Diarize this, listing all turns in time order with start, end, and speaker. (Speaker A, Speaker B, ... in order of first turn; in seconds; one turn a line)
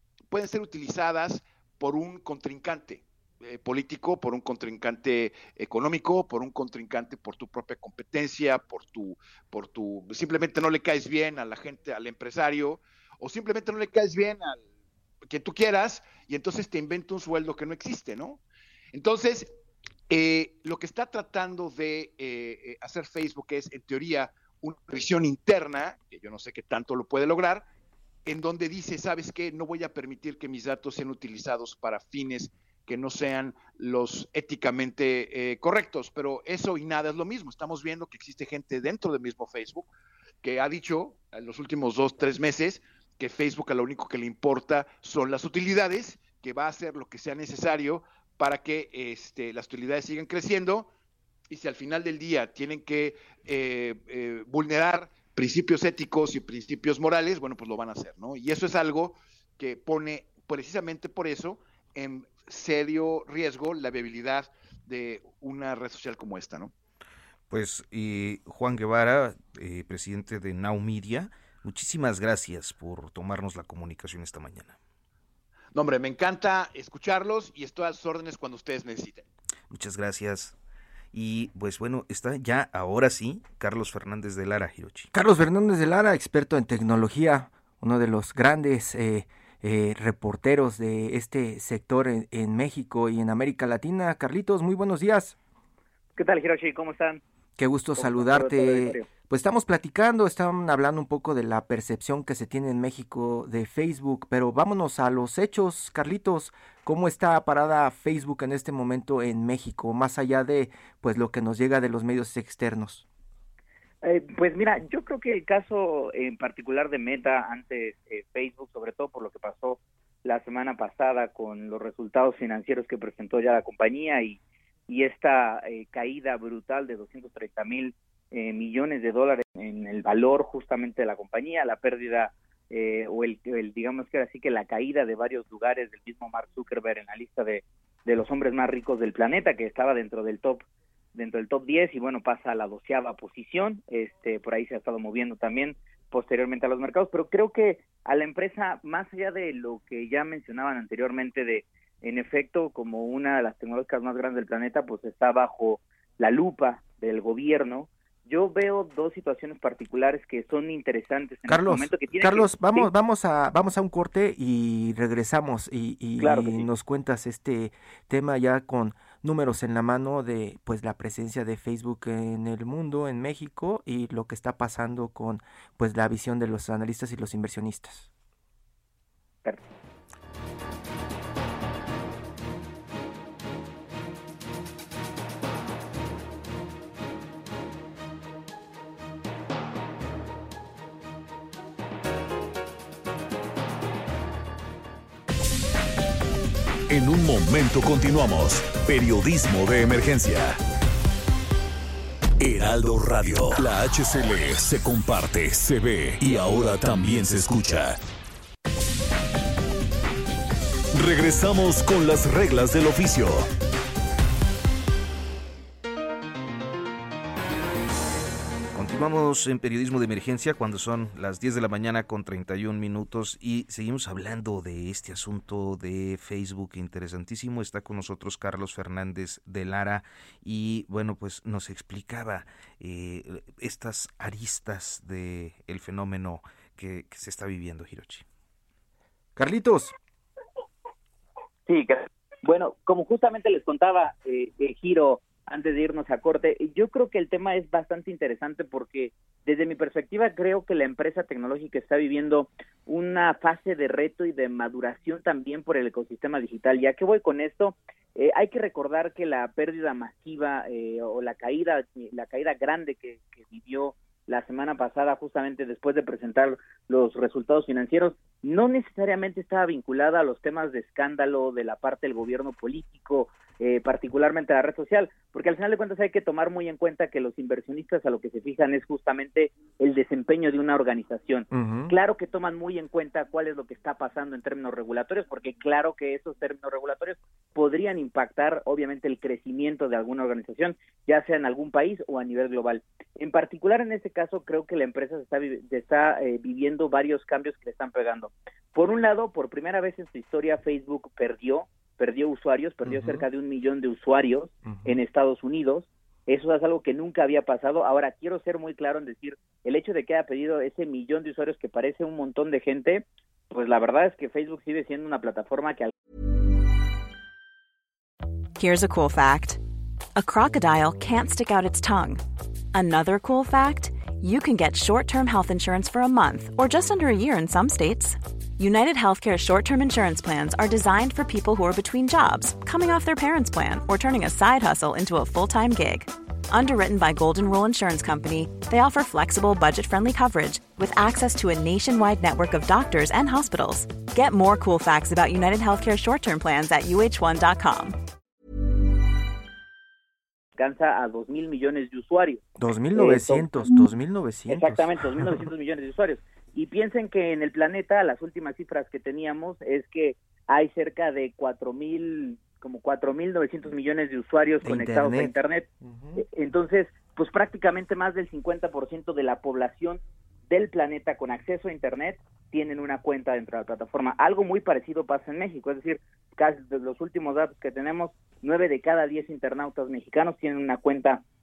Speaker A: 0.3-14.6
Speaker A: 15.3-19.5
Speaker A: 20.1-27.7
Speaker A: 28.2-39.9
Speaker A: 40.4-50.9
Speaker A: 51.5-66.7
Speaker B: 67.5-74.8
Speaker A: 75.7-79.2
Speaker B: 79.7-80.5
Speaker B: 81.1-85.1
Speaker C: 85.1-95.4
Speaker D: 96.2-97.2
Speaker C: 97.6-113.0
Speaker D: 98.0-99.1
Speaker D: 114.0-162.9
Speaker C: 161.5-178.1
Speaker D: 166.2-166.7
Speaker D: 179.4-179.7
Speaker E: 196.9-200.6
Speaker E: 202.4-208.0
Speaker E: 210.9-213.5
Speaker B: 218.7-238.2
Speaker C: 239.3-239.9
Speaker D: 241.7-315.9
Speaker C: 281.5-281.9
Speaker C: 302.8-303.2
Speaker C: 304.6-304.9
Speaker F: 318.6-319.6
Speaker F: 320.1-322.2
Speaker F: 322.7-347.9
Speaker D: 350.6-352.4
Speaker C: 352.6-355.4
Speaker D: 352.9-353.6
Speaker D: 354.5-381.2
Speaker C: 364.6-366.2